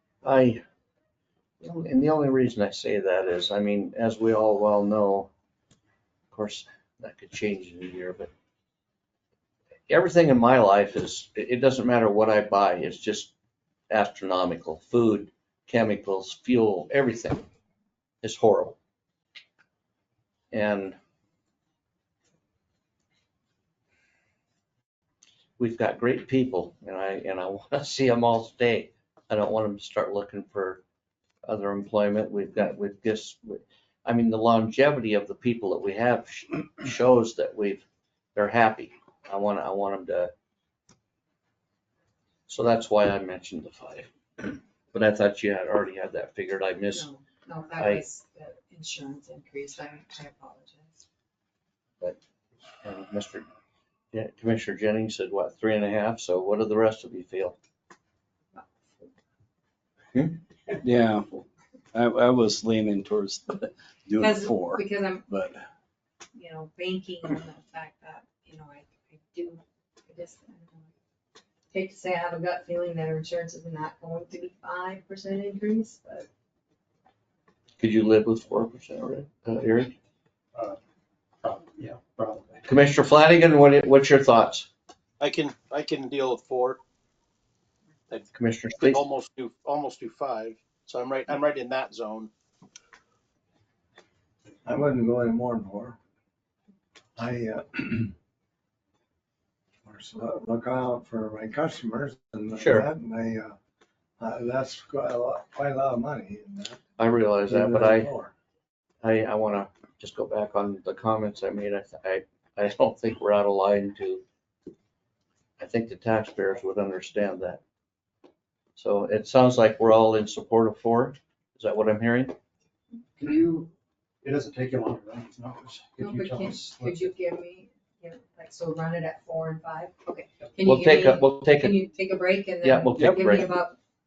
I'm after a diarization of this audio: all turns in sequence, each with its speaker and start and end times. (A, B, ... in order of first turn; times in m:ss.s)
0:00.2-0:00.6 A
0:01.6-0:05.3 A
0:06.3-0:08.3 A
0:09.9-0:13.3 A
0:13.9-0:17.4 A
0:18.2-0:18.8 A
0:20.5-0:21.0 A
0:25.6-0:30.8 A
0:31.4-0:37.8 A
0:38.3-0:40.3 A
0:42.5-0:47.1 A
0:46.9-0:51.0 B
0:47.8-0:48.0 A
0:52.8-0:53.5 A
0:54.1-0:57.6 A
0:58.5-0:59.1 B
1:00.8-1:01.3 C
1:01.9-1:05.5 C
1:04.2-1:05.5 B
1:06.3-1:10.9 B
1:11.7-1:16.3 B
1:17.8-1:19.9 A
1:20.5-1:20.8 D
1:21.4-1:22.6 D
1:22.6-1:24.7 A
1:25.2-1:26.8 E
1:28.3-1:29.0 A
1:28.9-1:32.3 E
1:34.6-1:36.0 F
1:37.2-1:38.1 F
1:39.8-1:43.6 F
1:42.6-1:42.9 A
1:44.2-1:46.8 F
1:47.0-1:48.1 A
1:47.4-1:48.3 F
1:49.0-1:54.2 A
1:55.6-1:57.6 A
1:58.8-2:02.4 A
2:03.2-2:03.7 D
2:04.2-2:07.1 D
2:06.0-2:13.8 B
2:10.6-2:11.8 A
2:12.6-2:13.5 A
2:13.0-2:13.2 C